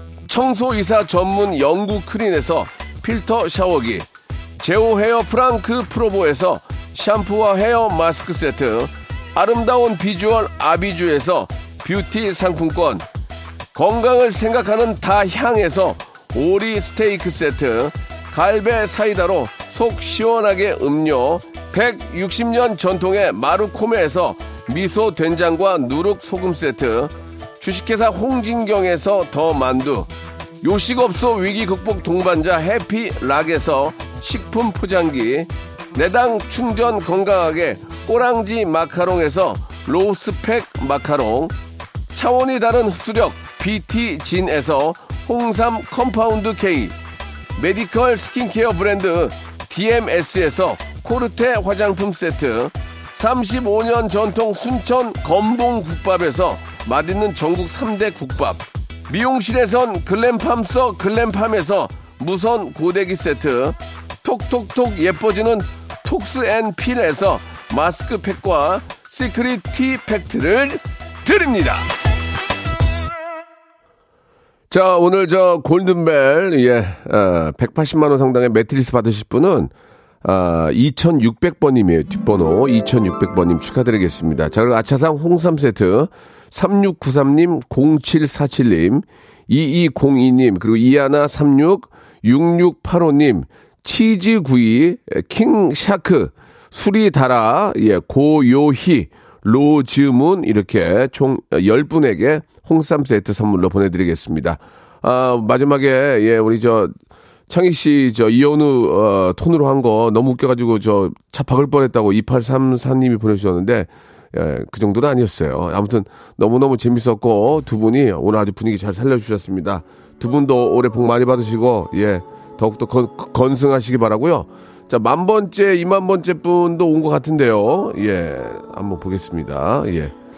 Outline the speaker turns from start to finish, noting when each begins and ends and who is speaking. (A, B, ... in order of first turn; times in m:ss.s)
0:00.3-0:04.1 A
0:04.6-0:13.1 A
0:13.7-0:30.1 A
0:30.6-0:41.5 A
0:42.1-0:47.0 A
0:47.6-1:11.9 A
1:14.7-1:19.7 A
1:20.2-1:46.9 A
1:47.5-2:10.1 A